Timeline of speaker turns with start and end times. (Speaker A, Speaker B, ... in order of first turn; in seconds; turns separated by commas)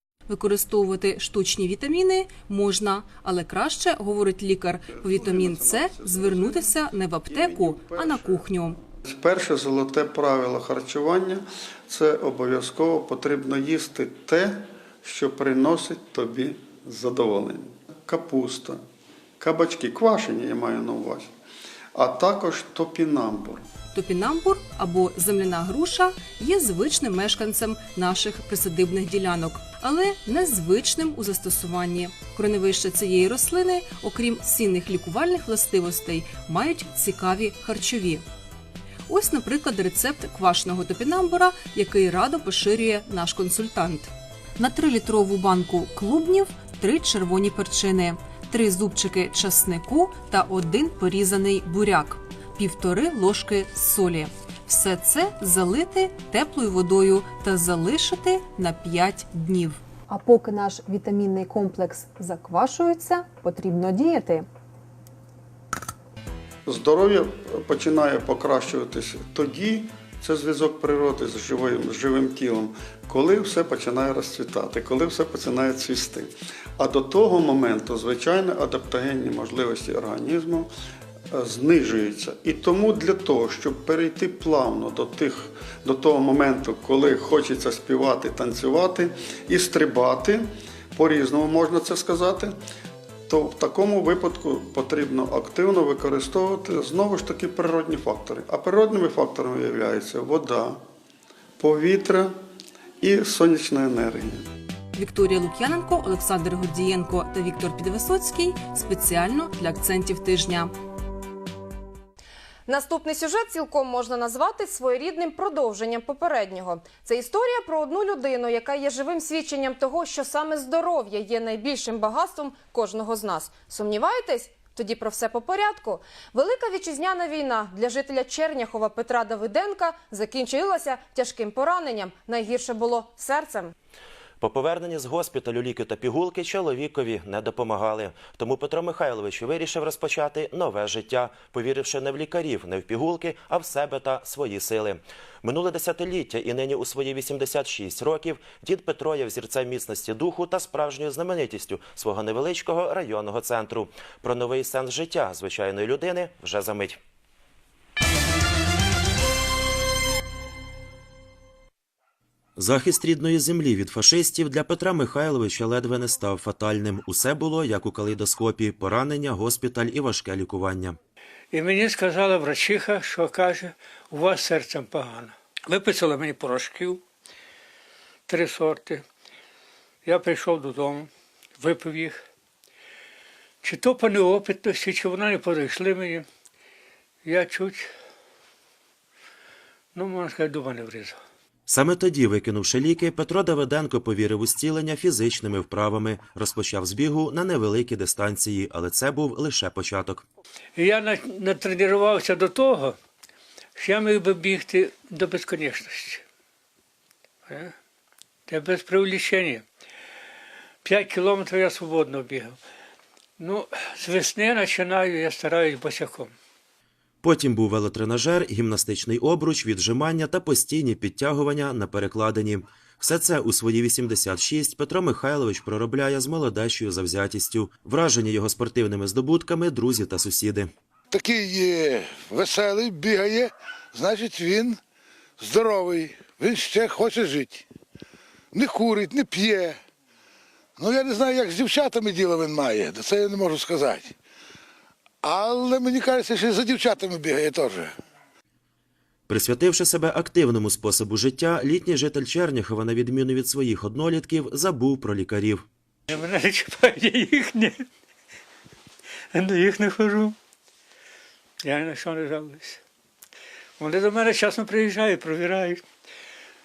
Speaker A: 0.3-8.8, Speaker B: 4.9-8.4, Speaker B: 9.0-18.8, Speaker B: 19.4-21.3, Speaker B: 21.9-23.6, Speaker A: 23.9-38.2, Speaker A: 39.1-59.8, Speaker C: 60.1-64.5, Speaker B: 66.7-80.7, Speaker B: 81.3-92.5, Speaker B: 93.3-100.8, Speaker B: 101.6-102.4, Speaker B: 103.0-104.5, Speaker A: 104.9-110.7, Speaker D: 112.7-133.7, Speaker E: 134.4-157.0, Speaker E: 162.6-171.0, Speaker F: 171.5-177.0, Speaker F: 178.3-179.0, Speaker F: 180.0-182.2, Speaker F: 183.6-186.3, Speaker F: 187.2-187.9, Speaker F: 189.9-191.2, Speaker E: 191.7-200.2, Speaker F: 200.8-203.0, Speaker F: 203.8-206.2, Speaker F: 207.4-207.7, Speaker F: 208.5-209.6, Speaker F: 210.8-212.6, Speaker F: 213.4-216.3, Speaker E: 217.2-230.7, Speaker G: 231.1-234.8, Speaker G: 235.4-237.6, Speaker G: 238.5-239.8, Speaker G: 240.8-244.1, Speaker G: 245.2-247.9, Speaker E: 249.3-255.6, Speaker F: 256.1-257.9, Speaker F: 259.3-260.4, Speaker F: 261.6-262.8, Speaker F: 263.8-265.8